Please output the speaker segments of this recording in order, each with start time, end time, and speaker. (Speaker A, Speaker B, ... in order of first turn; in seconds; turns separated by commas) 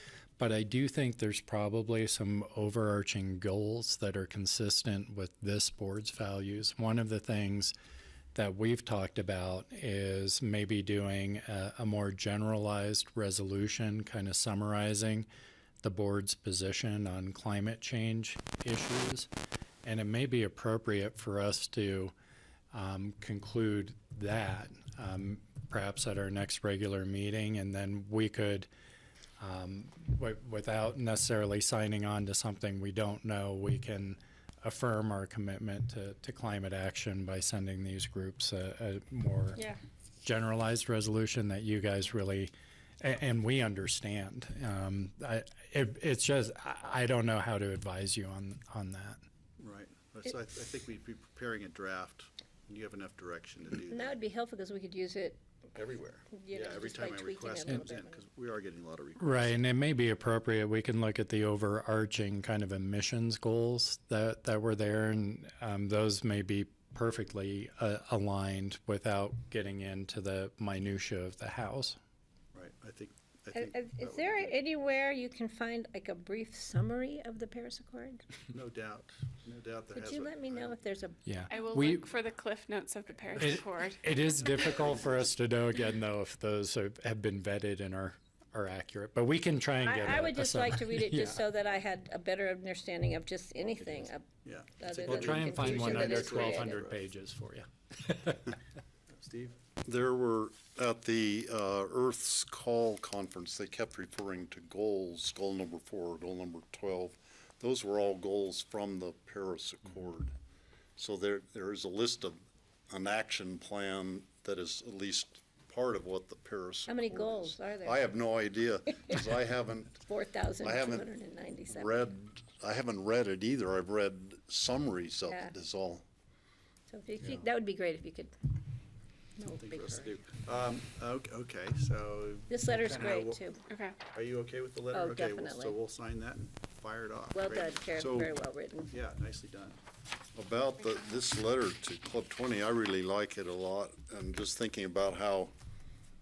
Speaker A: 0.4-7.7, Speaker A: 8.3-15.3, Speaker A: 15.8-19.3, Speaker A: 19.9-22.1, Speaker A: 22.7-28.7, Speaker A: 29.4-39.6, Speaker A: 40.2-49.2, Speaker B: 49.6-54.2, Speaker C: 53.9-55.4, Speaker B: 55.8-59.6, Speaker C: 56.3-58.2, Speaker A: 59.2-72.0, Speaker B: 72.5-74.6, Speaker C: 73.5-78.2, Speaker B: 78.5-80.8, Speaker C: 79.9-81.7, Speaker A: 81.3-82.1, Speaker D: 81.5-84.0, Speaker A: 83.4-91.5, Speaker C: 89.8-94.3, Speaker B: 93.8-97.0, Speaker C: 94.8-96.8, Speaker A: 95.0-98.5, Speaker B: 99.2-99.6, Speaker E: 99.8-110.3, Speaker E: 111.0-120.0, Speaker C: 116.9-119.4, Speaker C: 120.0-122.1, Speaker E: 120.6-121.1, Speaker E: 121.7-126.0, Speaker C: 125.3-125.5, Speaker C: 126.9-128.3, Speaker C: 129.4-130.2, Speaker B: 129.6-133.4, Speaker C: 132.5-133.6, Speaker D: 133.7-134.0, Speaker B: 134.1-138.2, Speaker C: 134.9-135.8, Speaker C: 137.3-138.9, Speaker E: 138.0-138.3, Speaker B: 138.9-139.8, Speaker E: 140.3-145.5